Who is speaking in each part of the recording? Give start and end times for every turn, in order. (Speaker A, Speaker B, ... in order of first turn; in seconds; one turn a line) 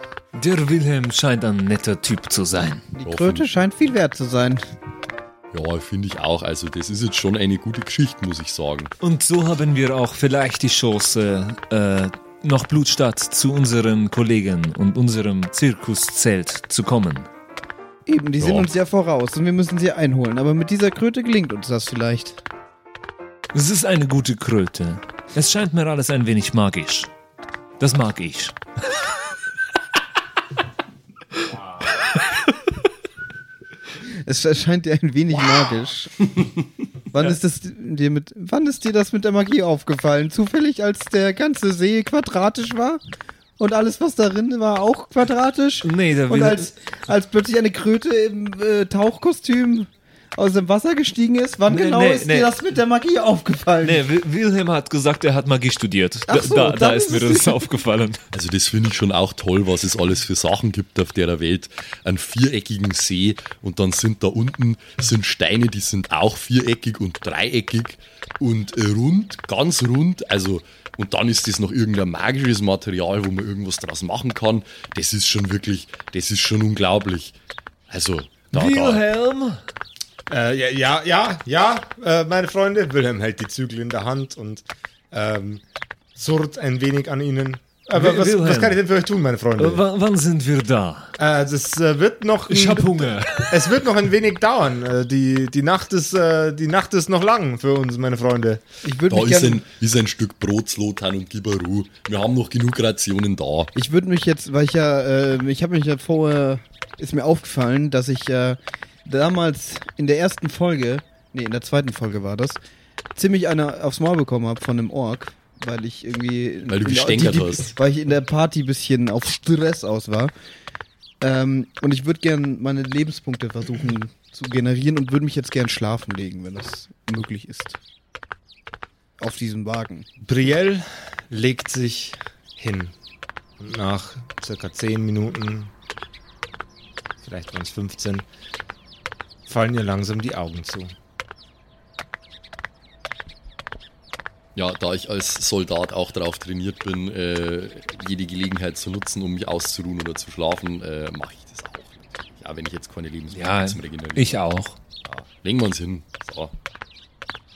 Speaker A: 0.3-2.9
Speaker B: 2.9-4.7
Speaker C: 3.0-3.5
Speaker C: 5.5-8.9
Speaker A: 9.0-17.3
Speaker B: 18.1-22.4
Speaker C: 18.4-18.7
Speaker A: 23.5-27.1
Speaker A: 27.8-28.6
Speaker B: 34.0-36.5
Speaker B: 37.1-43.0
Speaker B: 43.6-54.0
Speaker A: 45.8-46.7
Speaker A: 51.7-52.5
Speaker A: 53.8-58.2
Speaker B: 56.3-57.6
Speaker C: 58.3-77.4
Speaker C: 77.9-79.0
Speaker A: 78.5-79.6
Speaker D: 80.3-85.6
Speaker D: 86.2-89.8
Speaker A: 87.9-88.8
Speaker A: 89.6-91.1
Speaker D: 91.2-98.6
Speaker A: 92.5-93.6
Speaker B: 98.8-99.6
Speaker C: 99.1-103.7
Speaker B: 103.8-112.6
Speaker B: 113.2-120.3
Speaker C: 116.7-117.7
Speaker B: 121.2-127.8
Speaker B: 129.2-130.1
Speaker D: 130.3-132.9
Speaker D: 133.6-135.7
Speaker D: 137.2-138.2
Speaker D: 139.5-140.9
Speaker C: 144.6-154.4
Speaker A: 153.3-154.8
Speaker C: 155.1-156.5